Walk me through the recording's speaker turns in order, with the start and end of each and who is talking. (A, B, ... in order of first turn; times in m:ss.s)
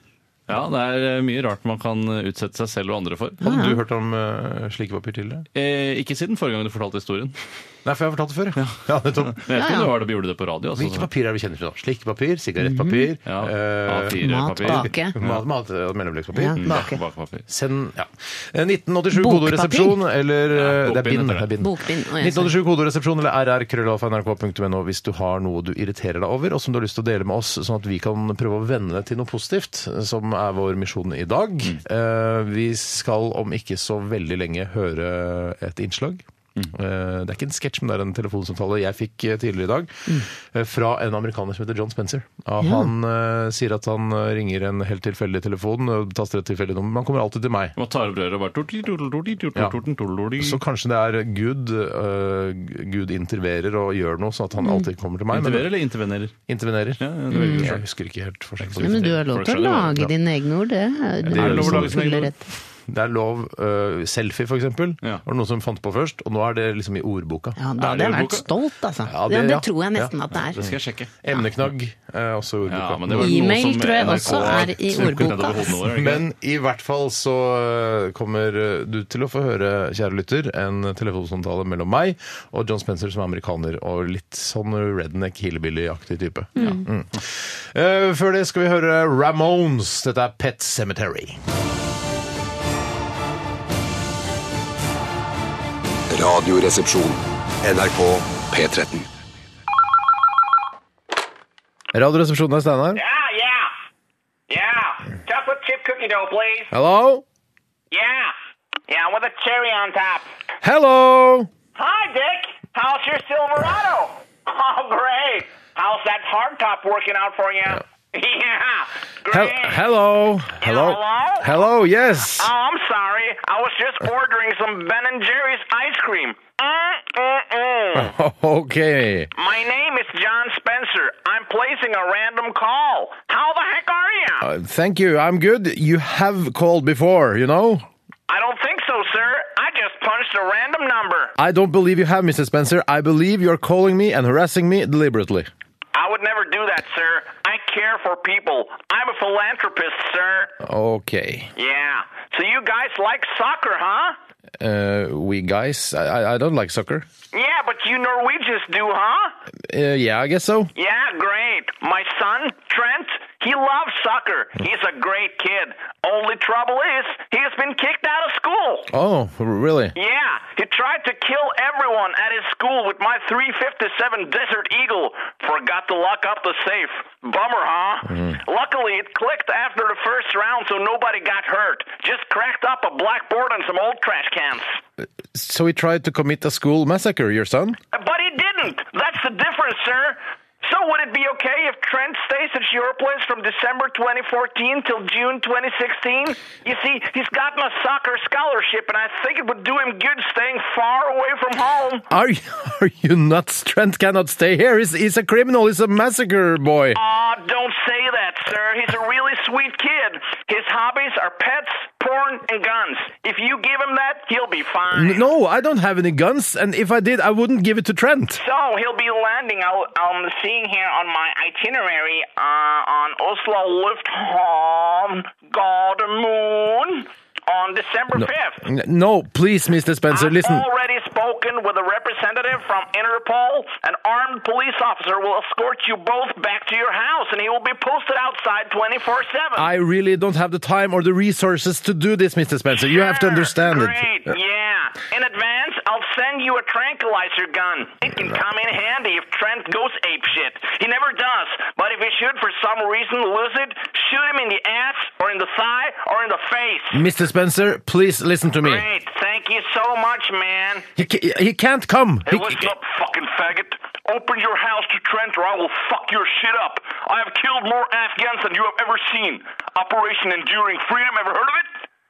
0:00.5-0:03.4 A
0:03.4-0:03.8 B
0:03.4-0:05.5 C
0:05.5-0:07.4 A
0:07.8-0:09.4 C
0:08.6-0:11.1 A
0:09.5-0:09.9 B
0:10.8-0:17.0 C
0:12.6-0:13.1 B
0:13.3-0:15.4 A
0:14.2-0:15.2 B
0:16.4-0:17.0 B
0:16.6-0:17.5 A
0:17.5-0:47.8 C
0:19.1-0:20.0 B
0:20.5-0:21.5 A
0:21.6-0:22.5 B
0:42.6-0:42.9 B
0:47.8-0:50.6 A
0:50.4-0:55.7 C
0:54.6-0:54.9 B
0:55.3-0:56.4 A
0:56.5-0:59.2 C
0:57.0-0:57.8 A
0:57.3-0:57.7 B
0:58.6-1:00.1 A
0:58.8-1:02.4 B
1:01.2-1:02.1 C
1:01.3-1:02.3 A
1:02.9-1:07.6 C
1:07.6-1:10.6 B
1:07.8-1:08.5 A
1:09.0-1:31.4 C
1:10.4-1:11.1 A
1:12.7-1:16.2 A
1:13.1-1:15.7 B
1:26.6-1:26.9 B
1:36.1-1:39.1 D
1:41.9-1:43.0 C
1:42.9-1:43.7 E
1:44.5-1:46.7 E
1:46.7-1:47.2 C
1:47.9-1:48.3 E
1:48.9-1:50.3 E
1:50.6-1:51.5 C
1:51.8-1:59.8 E
1:59.3-2:02.5 C
2:00.6-2:01.6 E
2:02.4-2:08.1 E
2:07.9-2:09.3 C
2:09.4-2:14.5 E
2:14.4-2:17.9 C
2:18.3-2:21.3 E
2:21.4-2:25.5 C
2:25.9-2:30.5 E
2:30.6-2:31.5 C
2:31.6-2:34.2 E
2:34.6-2:37.1 C
2:37.3-2:39.4 E
2:39.6-2:40.7 C
2:40.8-2:48.9 E
2:48.9-2:50.0 C
2:50.0-3:04.8 E
2:58.1-2:58.4 C
3:05.3-3:07.8 C
3:07.9-3:22.1 E
3:22.1-3:27.0 C
3:26.9-3:35.2 E
3:34.9-3:38.4 C
3:38.3-3:48.6 E
3:48.2-3:50.6 C
3:50.1-3:59.7 E
3:59.6-4:04.3 C
4:02.8-4:17.0 E
4:16.9-4:18.8 C
4:18.6-4:20.9 E
4:21.0-4:22.7 C
4:22.3-4:31.7 E